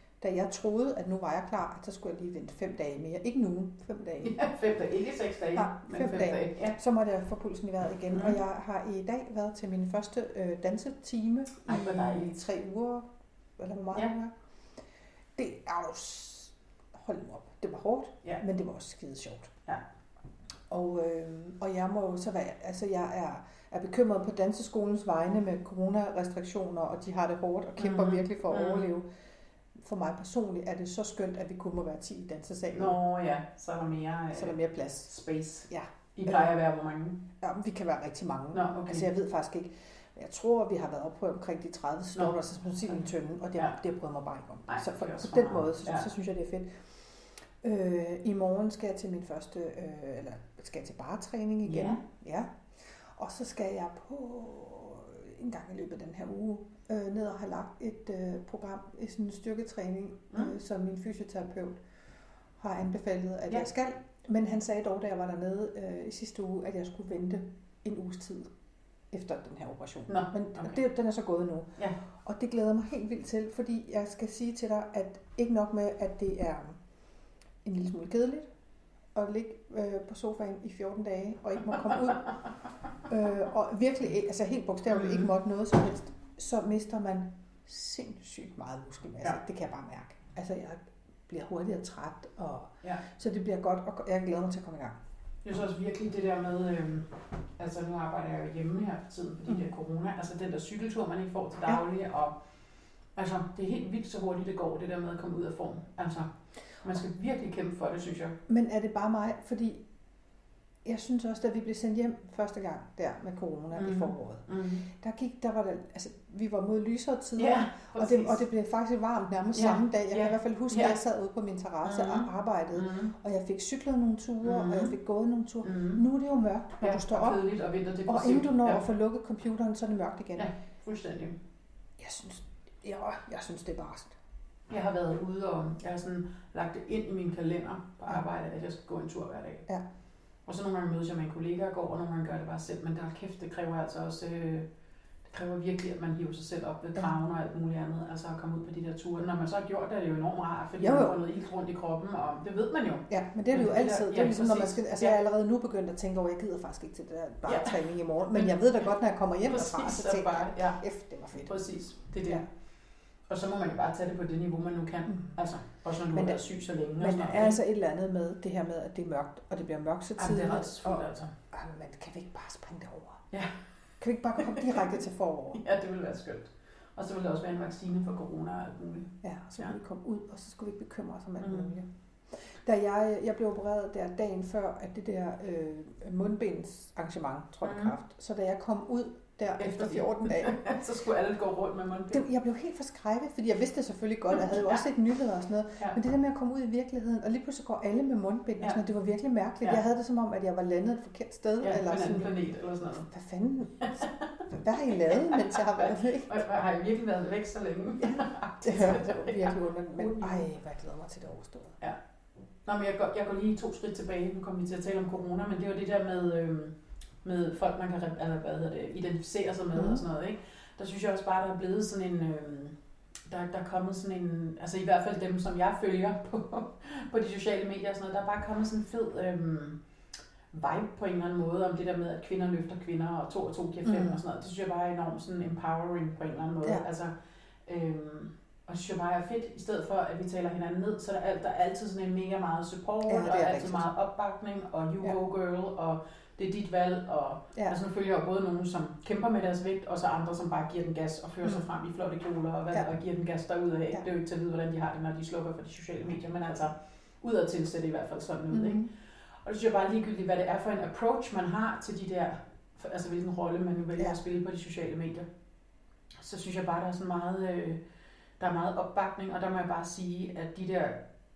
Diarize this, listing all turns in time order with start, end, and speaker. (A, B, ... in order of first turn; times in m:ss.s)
0:00.2-0:04.4 A
0:04.2-0:06.8 B
0:05.5-0:13.1 A
0:11.6-0:12.3 B
0:13.6-0:14.3 A
0:15.4-0:19.5 A
0:20.7-0:29.0 A
0:27.8-0:28.9 B
0:29.8-0:33.0 A
0:32.7-0:34.6 B
0:34.3-0:35.1 A
0:35.1-0:37.2 B
0:35.7-0:36.5 A
0:37.4-0:46.7 A
0:38.5-0:39.1 B
0:44.7-0:46.1 B
0:47.6-1:01.8 A
0:51.6-0:52.0 B
1:02.6-1:08.5 A
1:09.1-1:16.8 A
1:10.1-1:10.7 B
1:17.6-1:18.5 A
1:19.1-1:22.3 A
1:23.1-1:35.0 A
1:35.4-1:42.4 B
1:43.2-1:48.4 B
1:48.5-1:49.8 A
1:50.8-2:07.4 A
1:53.7-1:54.8 B
1:57.4-1:58.4 B
1:59.5-2:01.0 B
2:01.8-2:03.1 B
2:04.4-2:04.9 B
2:05.6-2:06.0 B
2:06.8-2:08.8 B
2:08.1-2:10.5 A
2:10.4-2:11.4 B
2:12.0-2:14.1 A
2:14.7-2:19.7 B
2:20.4-2:24.6 B
2:25.3-2:35.2 B
2:30.8-2:31.2 A
2:33.1-2:41.5 A
2:37.4-2:38.6 B
2:39.4-2:40.8 B
2:41.4-2:42.4 B
2:43.3-2:47.6 B
2:46.1-2:46.4 A
2:47.0-2:53.2 A
2:50.2-2:51.3 B
2:54.0-2:55.6 A
2:55.5-2:59.7 B
2:59.2-3:10.8 A
3:01.4-3:01.7 B
3:07.6-3:07.9 B
3:09.6-3:12.2 B
3:12.1-3:22.3 A
3:21.6-3:23.1 B
3:23.1-3:26.3 A
3:23.8-3:30.5 B
3:28.6-3:31.8 A
3:32.6-3:42.8 B
3:39.7-3:40.0 A
3:43.3-3:49.8 B
3:50.5-3:57.1 B
3:53.8-3:54.2 A
3:57.7-4:18.9 B
4:03.0-4:03.8 A
4:18.5-4:18.9 A
4:19.4-4:25.3 B
4:26.2-4:27.8 B
4:28.4-4:31.0 B